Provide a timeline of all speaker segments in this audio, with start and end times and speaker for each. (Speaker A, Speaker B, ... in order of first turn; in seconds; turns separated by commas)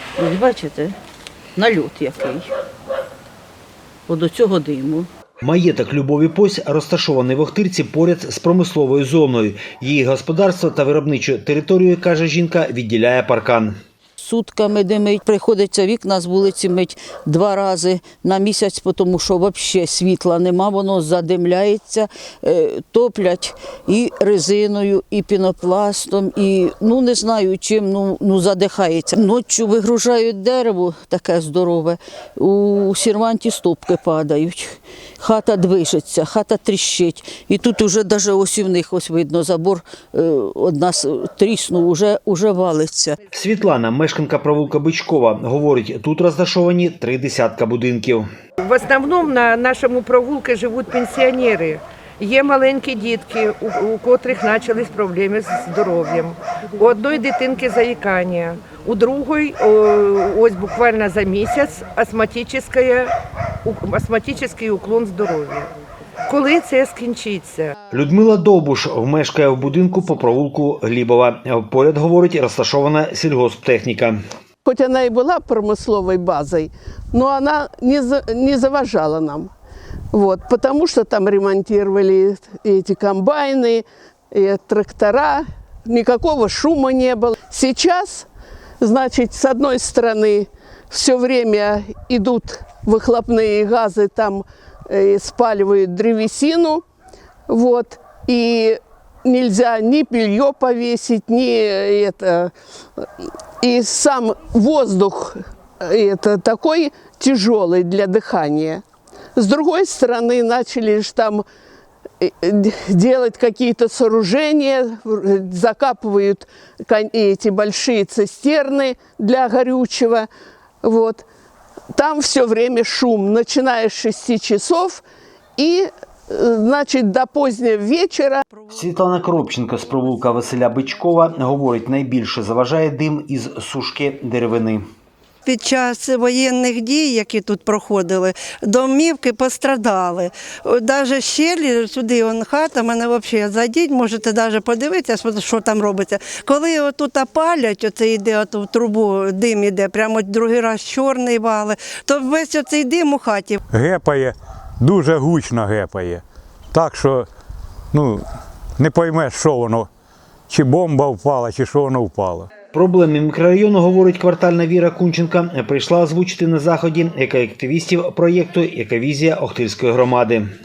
Speaker A: 0.2-1.0, Speaker A: 1.6-2.5, Speaker A: 4.1-5.1, Speaker B: 5.4-13.7, Speaker A: 14.2-43.2, Speaker B: 43.3-48.3, Speaker C: 48.6-65.7, Speaker C: 66.3-67.8, Speaker B: 67.9-74.2, Speaker D: 74.6-79.5, Speaker D: 80.1-88.3, Speaker D: 88.8-96.8, Speaker D: 97.5-108.8, Speaker D: 109.4-111.5, Speaker D: 112.2-120.3, Speaker D: 120.8-121.3, Speaker D: 121.9-125.0, Speaker D: 125.6-128.4, Speaker B: 128.7-134.8, Speaker E: 135.5-153.5, Speaker F: 153.7-157.3, Speaker F: 157.9-159.9, Speaker F: 160.5-162.5, Speaker B: 162.7-170.4